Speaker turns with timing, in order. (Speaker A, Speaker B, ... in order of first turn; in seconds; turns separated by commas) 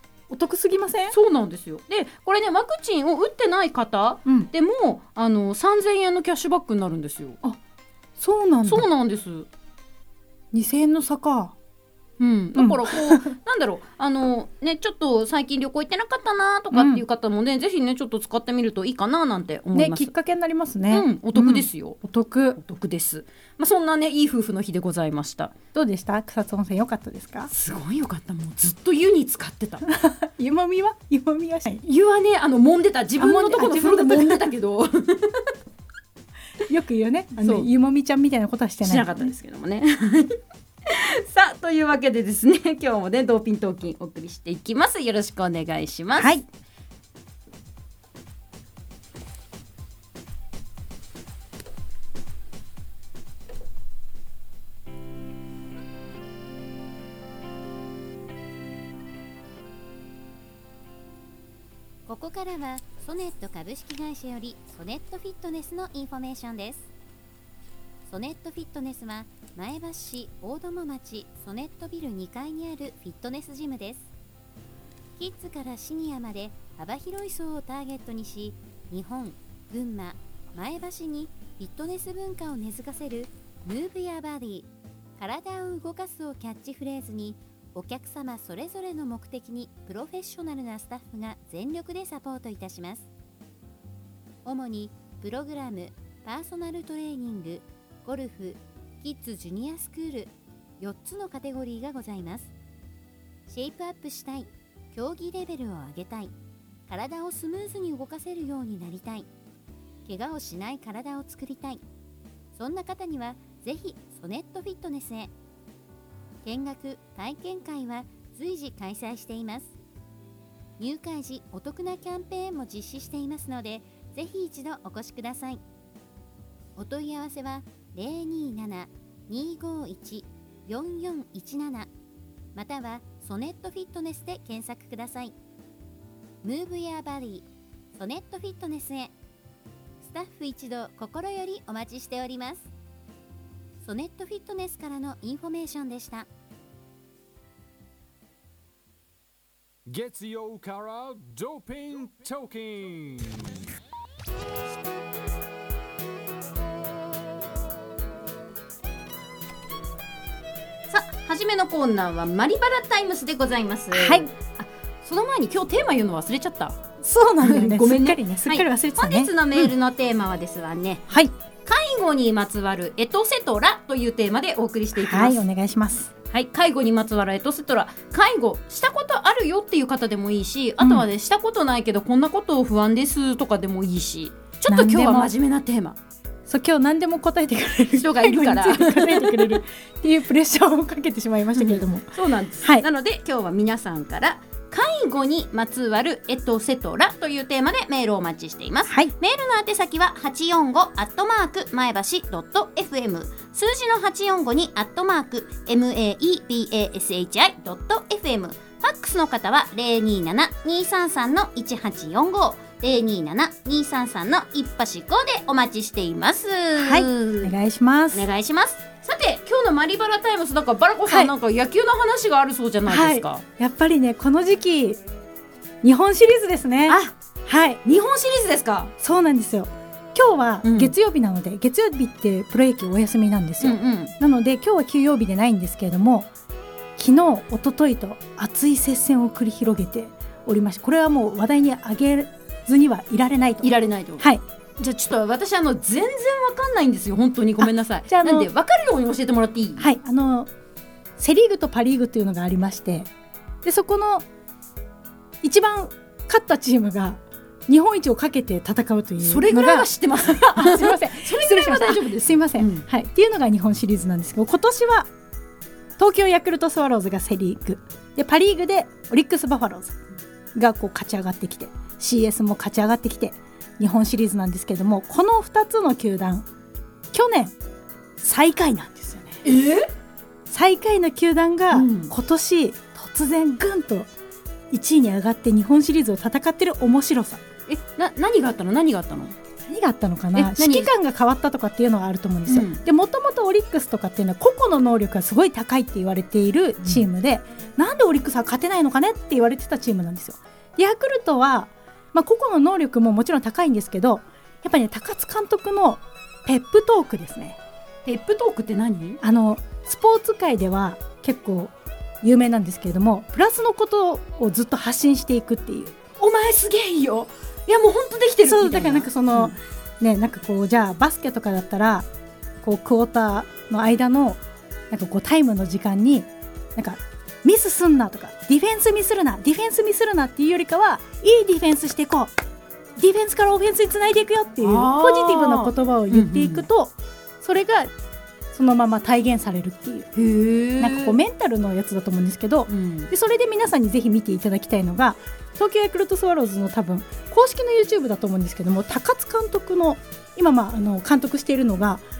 Speaker A: 0.3-1.1, Speaker B: 1.1-7.4, Speaker A: 8.2-8.9, Speaker B: 8.6-9.5, Speaker A: 10.5-11.5, Speaker B: 12.2-20.1, Speaker A: 12.5-13.3, Speaker A: 16.7-17.0, Speaker A: 19.7-22.6, Speaker B: 20.9-22.0, Speaker B: 22.6-25.5, Speaker A: 25.7-27.5, Speaker B: 27.5-29.9, Speaker A: 29.9-31.8, Speaker B: 31.8-35.5, Speaker A: 33.2-34.5, Speaker A: 36.6-39.3, Speaker B: 37.4-37.7, Speaker B: 38.8-46.4, Speaker A: 46.2-46.4, Speaker C: 62.1-66.9, Speaker C: 68.1-74.1, Speaker C: 75.2-93.1, Speaker C: 94.4-102.5, Speaker C: 103.5-106.3, Speaker C: 106.9-109.3, Speaker C: 110.0-111.8, Speaker C: 112.5-115.3, Speaker C: 116.4-119.7, Speaker C: 120.8-125.6, Speaker C: 126.8-131.9, Speaker C: 132.5-135.3, Speaker C: 136.4-139.1, Speaker C: 140.0-142.7, Speaker C: 143.8-146.3, Speaker D: 149.9-153.6, Speaker B: 160.9-166.8, Speaker A: 163.9-164.2, Speaker A: 167.0-169.7, Speaker B: 167.4-171.1, Speaker A: 171.1-171.3, Speaker B: 171.6-175.4, Speaker A: 174.9-176.1, Speaker B: 176.3-186.0, Speaker A: 180.8-181.0, Speaker A: 184.7-185.3, Speaker A: 186.5-192.8, Speaker B: 187.9-189.6, Speaker B: 191.5-217.5, Speaker A: 198.9-199.1, Speaker A: 216.8-218.3, Speaker B: 218.1-223.4, Speaker A: 221.1-221.3, Speaker A: 222.8-225.0, Speaker A: 225.8-227.8, Speaker B: 226.9-227.1, Speaker B: 227.8-228.9, Speaker A: 229.0-236.3, Speaker B: 230.6-230.9, Speaker B: 233.6-234.1, Speaker A: 236.9-244.4, Speaker B: 243.6-244.3, Speaker B: 244.8-249.9, Speaker A: 247.6-248.5, Speaker A: 249.8-250.5, Speaker A: 251.2-253.1, Speaker A: 253.6-254.2, Speaker A: 255.4-265.1, Speaker B: 259.2-262.8, Speaker A: 266.0-270.0, Speaker A: 270.5-276.5, Speaker A: 277.1-277.6, Speaker A: 278.2-279.4, Speaker B: 279.4-279.9, Speaker A: 280.5-284.1, Speaker B: 281.7-282.1, Speaker A: 284.7-287.4, Speaker B: 287.7-289.3, Speaker A: 289.6-307.6, Speaker B: 290.3-290.9, Speaker B: 292.5-292.8, Speaker B: 308.0-309.2, Speaker A: 309.2-315.9, Speaker B: 316.2-319.6, Speaker A: 318.4-322.1, Speaker A: 322.6-332.3, Speaker A: 333.0-337.9, Speaker B: 334.6-336.6, Speaker A: 338.5-340.1, Speaker B: 340.1-341.2, Speaker A: 340.8-352.0, Speaker B: 342.7-343.1